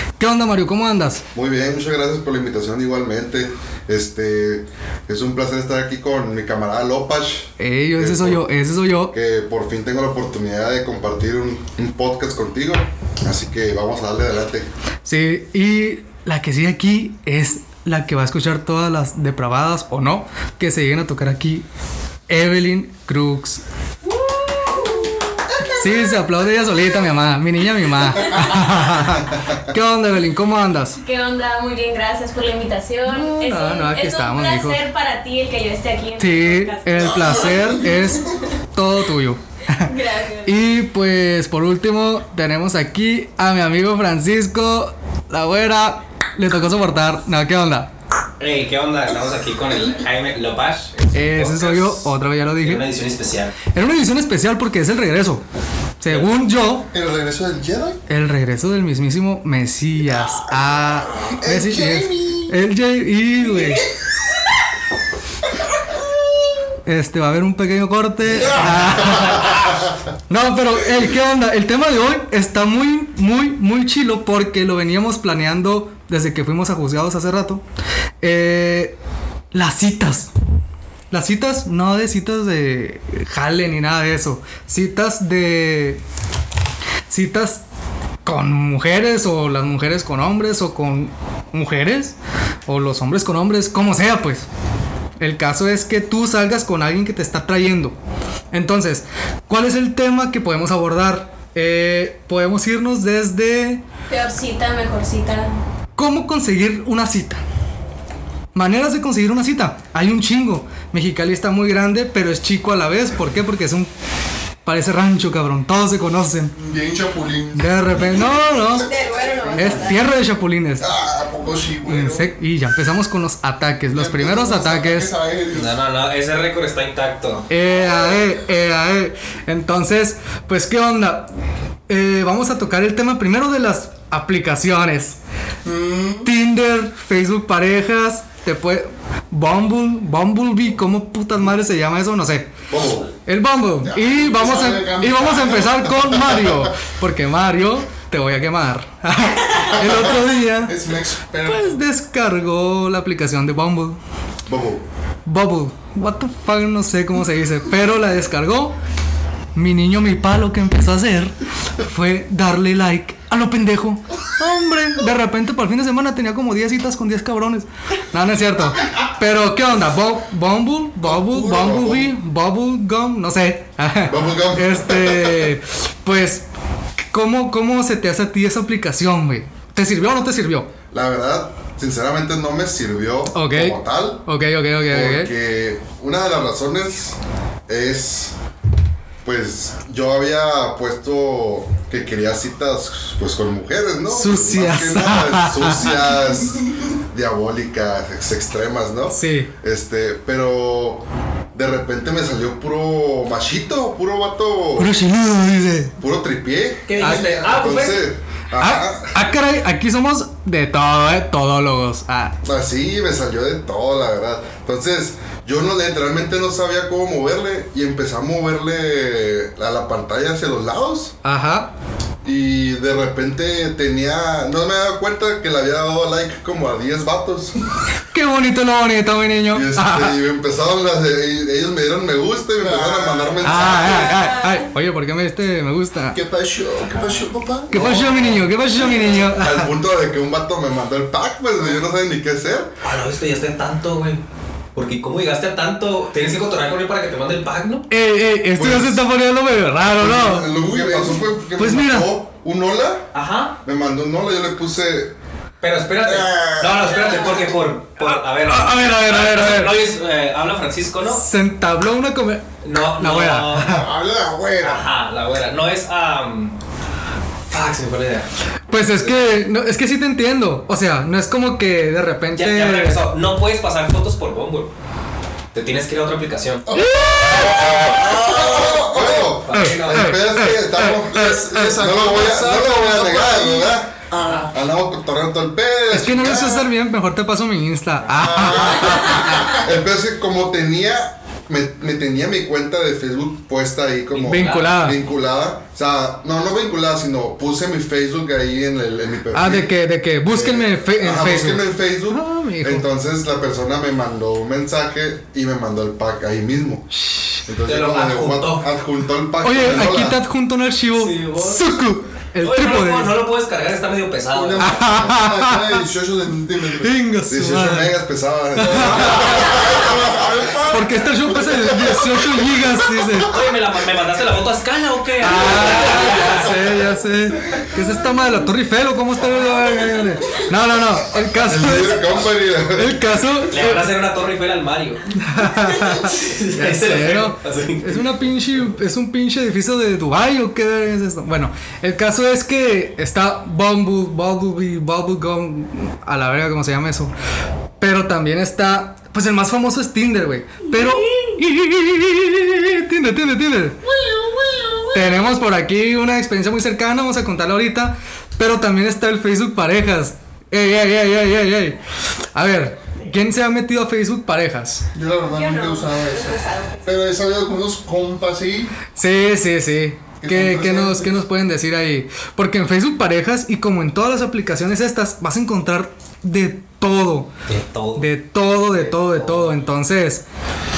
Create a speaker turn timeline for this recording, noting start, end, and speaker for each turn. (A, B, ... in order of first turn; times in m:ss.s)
0:00.2-0:01.3 A
0:01.3-0:08.4 B
0:07.6-0:09.1 A
0:09.1-0:14.7 B
0:15.0-0:21.6 A
0:22.3-0:23.6 A
0:24.0-0:25.8 C
0:25.7-0:31.0 A
0:31.0-0:37.5 C
0:33.1-0:34.8 A
0:36.2-0:39.9 A
0:37.0-0:38.2 D
0:39.8-0:40.5 C
0:40.4-0:47.9 A
0:48.4-0:53.6 E
0:51.1-0:52.8 A
0:53.7-0:55.4 A
0:56.0-0:56.9 A
0:56.9-0:58.0 D
0:58.1-1:03.8 A
1:01.2-1:02.6 D
1:06.8-1:09.6 A
1:08.5-1:09.6 D
1:10.3-1:17.6 A
1:18.2-1:18.9 A
1:19.5-1:20.3 A
1:21.1-1:26.0 A
1:27.1-1:27.6 A
1:28.2-1:32.2 A
1:32.7-1:34.4 A
1:35.2-1:38.0 A
1:38.5-1:43.8 A
1:44.1-1:45.5 C
1:46.0-1:47.4 A
1:48.5-1:53.9 A
1:54.6-1:56.6 A
1:56.6-2:00.0 D
1:57.5-1:58.9 A
1:58.8-2:00.0 C
1:59.6-2:00.9 A
2:00.8-2:02.3 D
2:01.8-2:05.1 A
2:03.9-2:05.8 D
2:05.5-2:07.5 E
2:07.5-2:11.3 A
2:11.9-2:15.2 A
2:15.6-2:16.3 D
2:16.2-2:22.5 A
2:22.7-2:23.1 B
2:23.2-2:30.8 A
2:23.8-2:26.5 D
2:29.7-2:31.8 D
2:31.4-2:34.0 A
2:34.5-2:34.8 B
2:35.2-2:38.8 A
2:39.6-2:56.4 A
2:51.0-2:52.1 D
2:51.5-2:52.0 B
2:54.1-2:55.5 B
2:57.1-3:00.7 A
3:00.9-3:04.3 B
3:03.3-3:05.3 A
3:04.9-3:07.2 B
3:07.7-3:08.3 B
3:09.2-3:24.9 B
3:14.1-3:15.9 A
3:19.1-3:19.5 A
3:24.8-3:26.0 A
3:26.0-3:29.3 B
3:26.9-3:28.1 E
3:27.0-3:27.3 A
3:28.6-3:32.4 A
3:32.4-3:41.2 B
3:41.2-3:41.7 A
3:42.2-3:47.6 B
3:48.1-3:50.2 A
3:49.5-3:54.2 B
3:52.6-3:53.8 D
3:53.4-3:56.2 A
3:53.7-3:54.7 C
3:56.1-3:57.9 D
3:57.0-3:57.2 E
3:57.7-3:59.7 A
3:57.7-4:02.7 B
4:02.8-4:04.2 E
4:04.8-4:07.9 E
4:07.9-4:10.5 A
4:08.6-4:09.1 B
4:09.8-4:13.1 B
4:10.4-4:11.2 D
4:11.6-4:12.1 A
4:13.1-4:13.6 E
4:13.6-4:15.1 B
4:15.6-4:21.2 E
4:16.1-4:16.8 D
4:18.0-4:19.8 A
4:21.1-4:23.8 A
4:22.6-4:23.8 E
4:23.6-4:24.8 D
4:24.6-4:26.6 E
4:27.5-4:28.3 E
4:28.7-4:33.0 A
4:29.0-4:29.3 E
4:32.3-4:34.7 E
4:35.5-4:36.6 E
4:36.7-4:39.3 D
4:36.8-4:37.6 A
4:37.3-4:46.6 B
4:38.9-4:40.1 E
4:39.5-4:41.7 A
4:41.0-4:44.5 D
4:45.9-4:49.4 A
4:48.2-4:59.7 B
4:48.4-4:49.4 D
4:54.1-4:54.8 E
4:54.3-4:55.0 A
4:59.3-5:02.9 A
5:00.2-5:06.9 B
5:06.9-5:07.4 A
5:07.4-5:10.2 B
5:07.7-5:08.7 E
5:09.4-5:13.2 A
5:11.0-5:11.8 E
5:12.4-5:14.8 E
5:14.3-5:17.0 D
5:14.6-5:15.8 A
5:16.8-5:18.0 A
5:17.3-5:22.0 B
5:18.5-5:19.5 A
5:18.7-5:20.2 D
5:19.2-5:19.4 E
5:20.7-5:23.3 A
5:23.3-5:26.6 E
5:25.2-5:33.9 A
5:31.4-5:33.3 B
5:33.5-5:35.0 E
5:35.2-5:47.1 A
5:35.8-5:38.1 E
5:47.8-5:53.8 A
5:50.8-5:51.3 C
5:54.0-5:54.9 C
5:54.9-6:01.8 A
6:02.3-6:04.8 A
6:04.9-6:08.8 D
6:05.3-6:07.0 C
6:08.9-6:17.3 A
6:10.2-6:11.2 D
6:17.5-6:18.1 E
6:17.9-6:20.2 A
6:18.7-6:19.6 E